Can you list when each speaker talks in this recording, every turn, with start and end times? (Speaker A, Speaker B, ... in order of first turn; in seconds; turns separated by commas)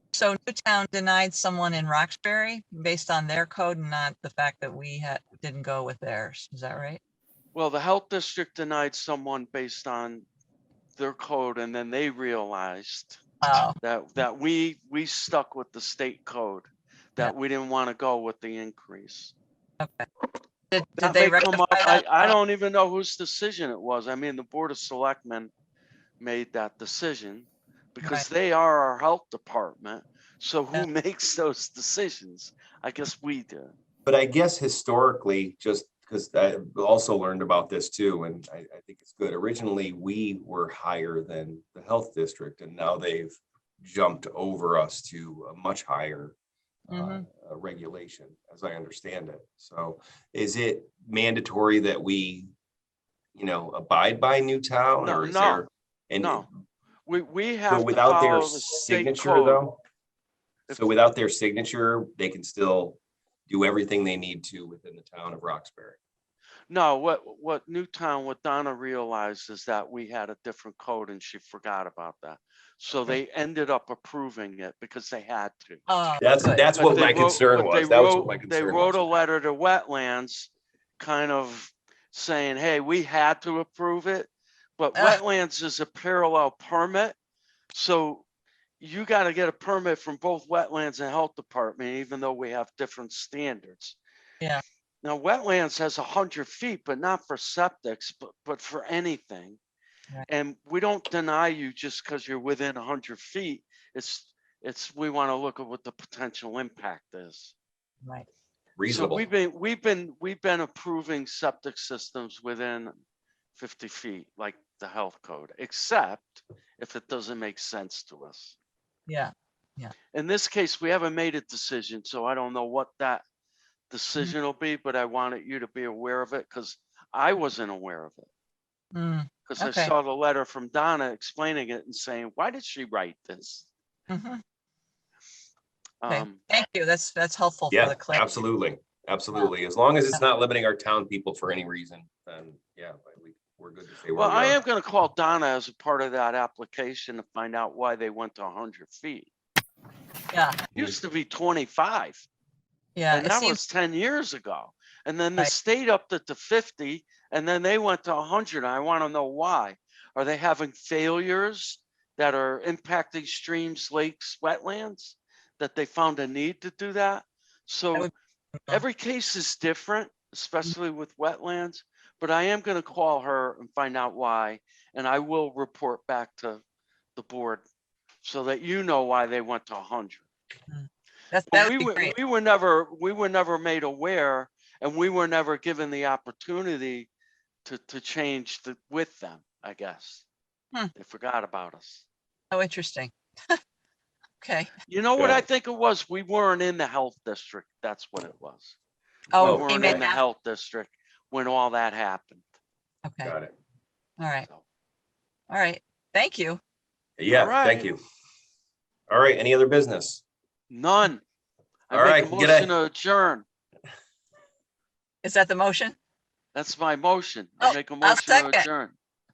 Speaker A: 0.1-7.0, Speaker B: 7.5-10.2, Speaker B: 11.0-19.3, Speaker A: 13.4-13.8, Speaker A: 19.8-20.1, Speaker A: 20.7-22.3, Speaker B: 21.0-25.5, Speaker B: 26.2-33.7, Speaker C: 34.0-46.3, Speaker A: 46.9-47.2, Speaker C: 46.9-52.5, Speaker C: 53.3-56.5, Speaker B: 55.0-55.7, Speaker B: 56.2-56.5, Speaker B: 57.0-59.6, Speaker C: 57.7-59.8, Speaker B: 60.7-61.0, Speaker C: 60.7-66.0, Speaker B: 66.7-75.8, Speaker A: 75.9-76.7, Speaker C: 76.2-79.2, Speaker B: 76.7-87.1, Speaker B: 87.7-88.2, Speaker B: 88.8-94.0, Speaker B: 95.0-99.6, Speaker B: 100.3-107.5, Speaker C: 108.8-109.2, Speaker B: 108.8-112.9, Speaker B: 113.5-118.5, Speaker A: 119.1-119.9, Speaker B: 120.1-123.2, Speaker B: 123.9-128.3, Speaker A: 128.9-129.9, Speaker B: 129.4-133.7, Speaker A: 134.1-134.4, Speaker B: 136.0-136.4, Speaker A: 136.1-138.4, Speaker C: 137.7-144.6, Speaker B: 144.1-149.3, Speaker A: 150.3-150.6, Speaker B: 150.7-152.2, Speaker A: 152.9-153.6, Speaker B: 153.1-168.1, Speaker A: 167.9-168.8, Speaker B: 168.7-176.6, Speaker B: 177.2-177.6, Speaker B: 178.2-180.2, Speaker A: 180.7-182.2, Speaker B: 181.5-187.1, Speaker B: 187.6-190.2, Speaker B: 190.9-192.0, Speaker A: 192.5-193.6, Speaker A: 194.4-194.7, Speaker B: 194.9-198.8, Speaker C: 195.2-195.4, Speaker A: 199.3-200.2, Speaker B: 199.4-202.4, Speaker C: 199.4-200.0, Speaker A: 203.0-203.3, Speaker C: 203.2-203.5, Speaker A: 204.2-204.5, Speaker A: 205.5-206.6, Speaker C: 207.2-208.0, Speaker B: 207.3-207.9, Speaker C: 209.1-210.2, Speaker B: 210.7-211.2, Speaker B: 211.9-213.4, Speaker C: 211.9-212.7, Speaker A: 215.2-215.9, Speaker B: 216.5-218.9, Speaker A: 217.6-218.7